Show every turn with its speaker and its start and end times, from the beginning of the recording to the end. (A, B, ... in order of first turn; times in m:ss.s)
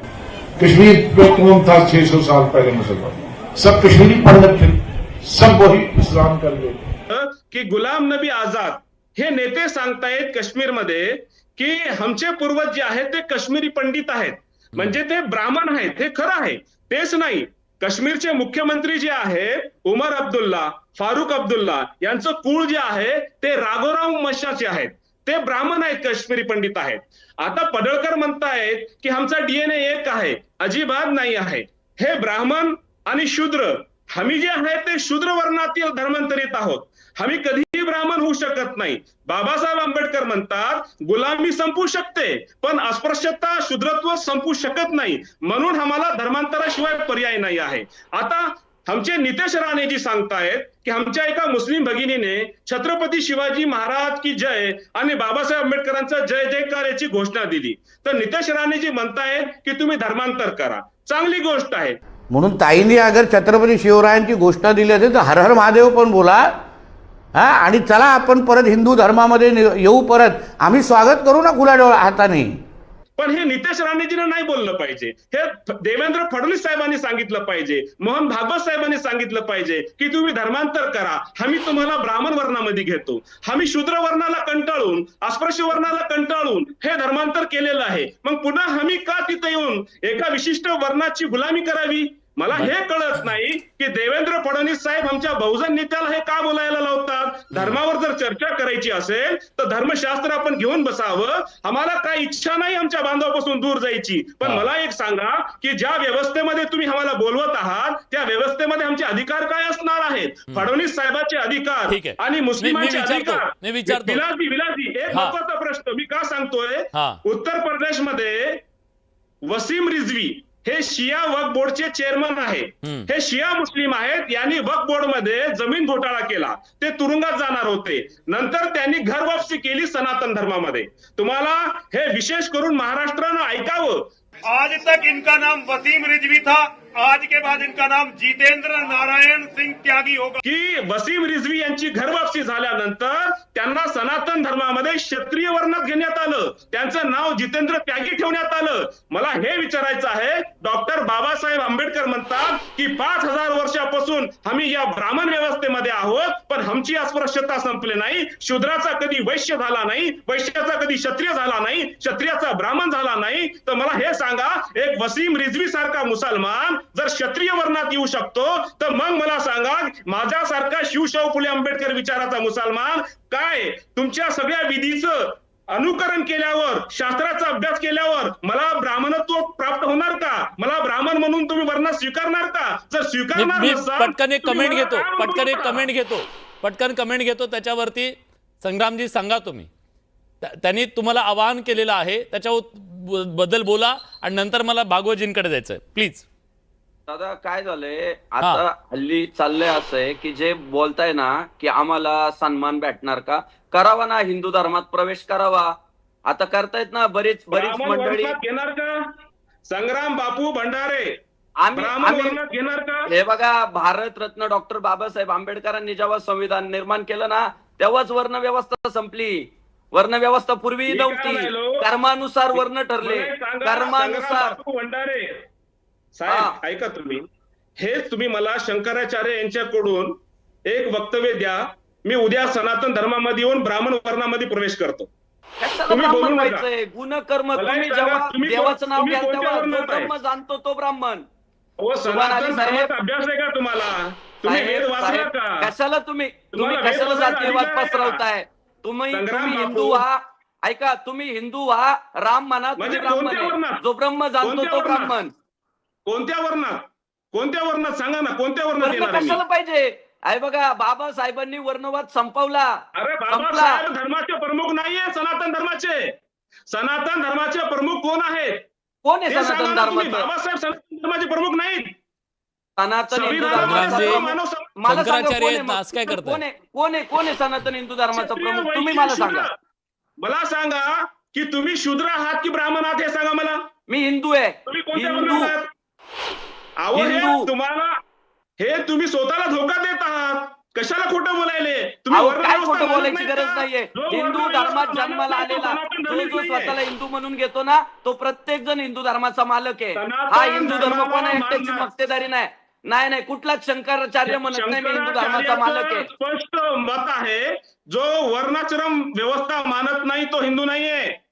0:00.6-0:06.9 A
0:07.1-1:02.0 B
1:02.3-1:06.5 C
1:07.3-1:12.6 C
1:13.2-1:58.6 B
1:37.5-1:37.8 D
1:44.4-1:44.7 D
1:51.9-1:54.2 D
1:55.1-1:55.4 D
1:56.9-1:57.2 D
1:59.5-2:14.1 B
2:02.8-2:03.1 D
2:14.4-2:20.4 E
2:20.4-3:05.9 B
3:03.3-3:09.7 D
3:10.4-3:16.2 D
3:17.1-3:25.7 F
3:26.3-3:28.4 F
3:27.5-3:29.0 B
3:29.7-3:31.2 B
3:31.6-3:32.4 F
3:31.8-3:33.1 B
3:33.1-3:44.6 F
3:40.9-3:41.8 B
3:42.5-3:45.4 B
3:46.1-3:47.2 B
3:46.3-3:46.5 F
3:47.8-3:50.2 B
3:50.7-3:55.1 B
3:55.6-4:01.2 F
3:55.9-3:56.6 B
3:57.6-4:00.1 B
4:01.8-4:05.7 B
4:02.0-4:02.9 F
4:04.4-4:15.3 F
4:06.5-4:08.2 B
4:09.1-4:10.0 B
4:12.8-4:13.8 B
4:14.4-4:15.1 B
4:16.1-4:19.4 B
4:18.8-4:22.7 F
4:23.0-4:26.1 B
4:23.3-4:23.8 F
4:26.7-4:28.6 B
4:29.0-4:30.3 F
4:29.3-4:31.9 B
4:32.8-4:39.5 F
4:33.1-4:34.8 B
4:33.3-4:34.2 D
4:34.8-4:36.4 D
4:38.1-4:39.5 B
4:40.2-4:43.6 B
4:43.9-4:45.5 F
4:44.6-4:45.7 B
4:46.8-4:47.9 B
4:46.9-4:47.4 F
4:48.6-4:56.8 B
4:52.1-5:06.1 F
5:00.0-5:01.9 B
5:04.3-5:11.2 B